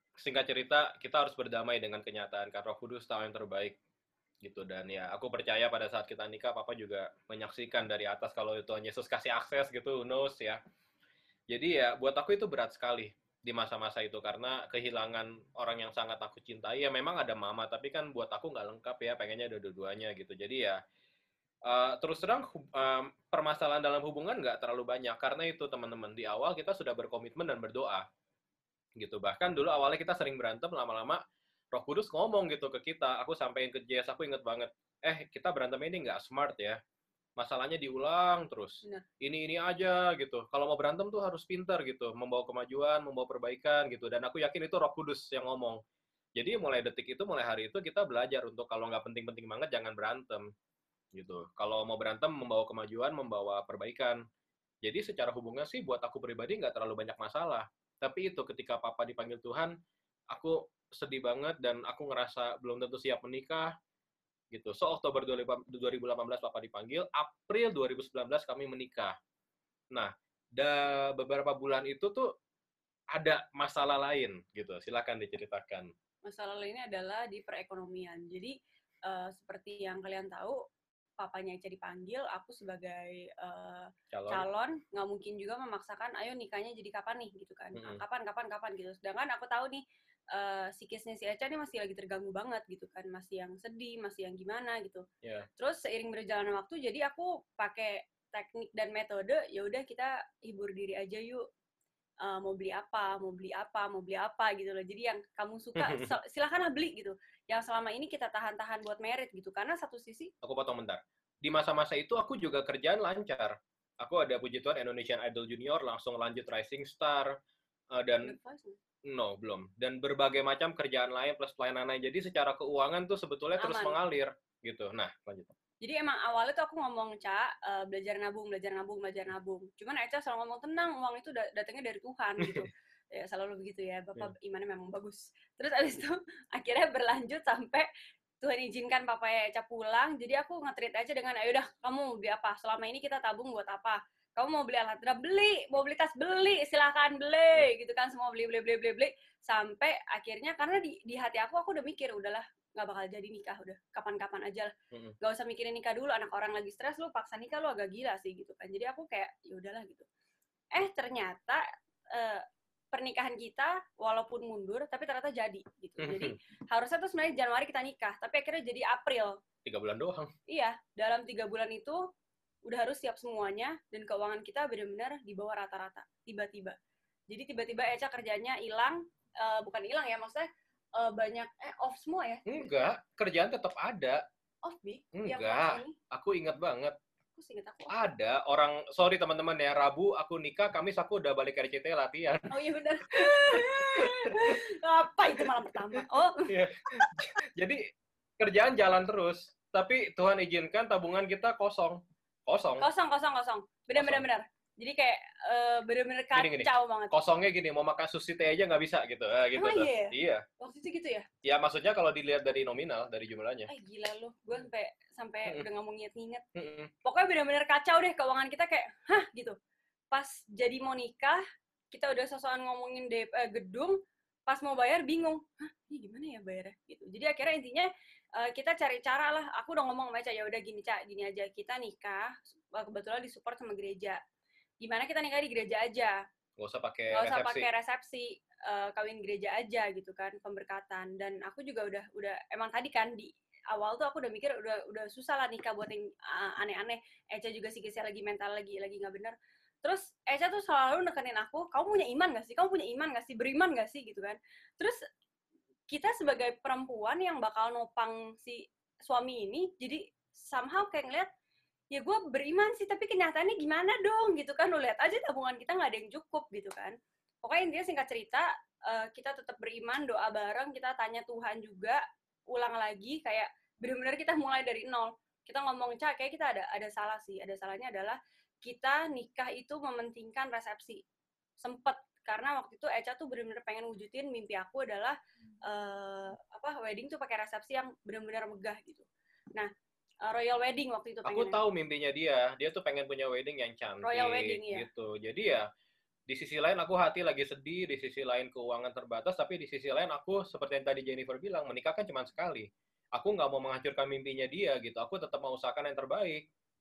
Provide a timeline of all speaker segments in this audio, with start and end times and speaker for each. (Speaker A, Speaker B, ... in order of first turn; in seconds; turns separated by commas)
Speaker A: 0.2-3.8, Speaker A: 4.4-10.6, Speaker A: 11.5-20.8, Speaker A: 21.7-28.0, Speaker A: 29.0-31.2, Speaker A: 31.7-36.8, Speaker A: 37.4-45.8, Speaker A: 46.4-50.5, Speaker A: 51.1-54.2, Speaker A: 54.8-59.7, Speaker A: 60.3-63.7, Speaker A: 64.5-69.1, Speaker A: 69.9-72.3, Speaker A: 73.1-75.9, Speaker B: 76.3-78.5, Speaker B: 79.1-80.6, Speaker B: 81.2-95.0, Speaker A: 84.1-84.5, Speaker B: 95.6-101.5, Speaker B: 102.2-110.3, Speaker A: 105.8-106.1, Speaker A: 110.4-117.3, Speaker A: 118.0-118.3, Speaker B: 118.2-118.8, Speaker A: 119.1-125.5, Speaker B: 123.6-124.0, Speaker B: 125.8-137.9, Speaker B: 138.4-154.7, Speaker B: 155.2-160.1, Speaker B: 160.7-161.6, Speaker B: 162.1-169.4, Speaker A: 166.0-166.3, Speaker A: 169.7-170.3, Speaker B: 170.5-172.0, Speaker B: 172.7-176.8, Speaker B: 177.3-180.5, Speaker B: 181.0-182.7, Speaker A: 182.5-184.2, Speaker B: 184.7-185.9, Speaker A: 185.2-186.9, Speaker B: 187.4-187.9, Speaker A: 187.9-192.5, Speaker B: 192.5-196.5, Speaker A: 193.1-194.5, Speaker A: 196.5-197.9, Speaker A: 198.4-202.8, Speaker B: 202.8-207.1, Speaker A: 203.9-204.2, Speaker A: 206.3-210.4, Speaker B: 209.6-211.3, Speaker A: 211.4-213.7, Speaker B: 213.7-216.4, Speaker A: 216.6-216.9, Speaker B: 217.1-219.6, Speaker B: 220.1-221.4, Speaker B: 221.9-224.0, Speaker B: 224.5-234.2, Speaker B: 234.8-236.2, Speaker A: 236.6-237.7, Speaker B: 237.1-255.0, Speaker B: 255.9-261.3, Speaker B: 261.9-281.0, Speaker B: 281.6-289.7, Speaker B: 290.3-291.6, Speaker A: 291.3-295.6, Speaker B: 294.0-294.9, Speaker A: 296.3-306.4